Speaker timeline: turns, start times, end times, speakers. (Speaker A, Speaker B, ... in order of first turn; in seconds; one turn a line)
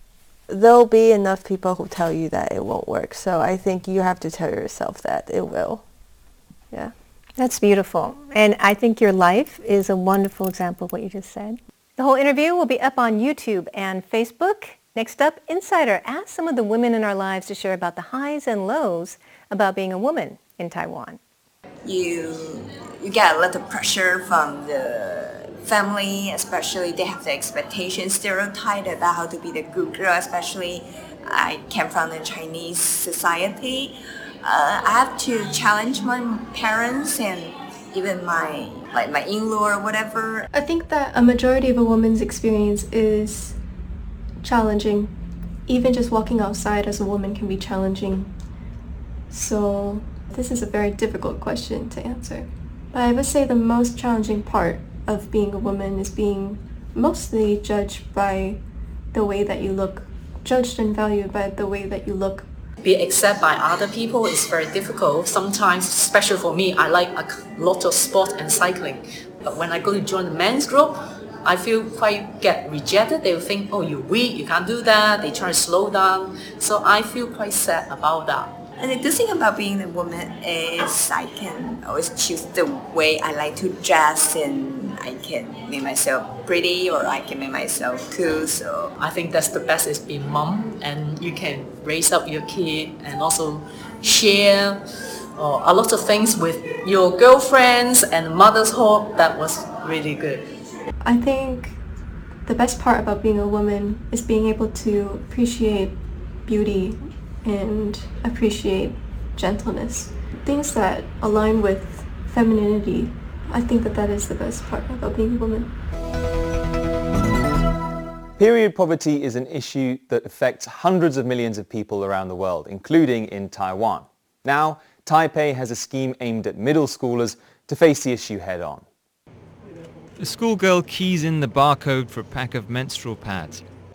Speaker A: 0.5-5.8
Speaker B: 7.4-21.2
Speaker C: 21.8-40.5
Speaker D: 40.5-43.6
Speaker D: 44.4-45.1
Speaker D: 45.6-48.3
Speaker D: 49.3-62.5
Speaker E: 62.8-78.6
Speaker C: 78.8-88.9
Speaker E: 89.0-94.8
Speaker E: 95.4-100.5
Speaker D: 101.0-101.8
Speaker D: 102.5-115.7
Speaker F: 118.4-128.9
Speaker G: 130.2-133.6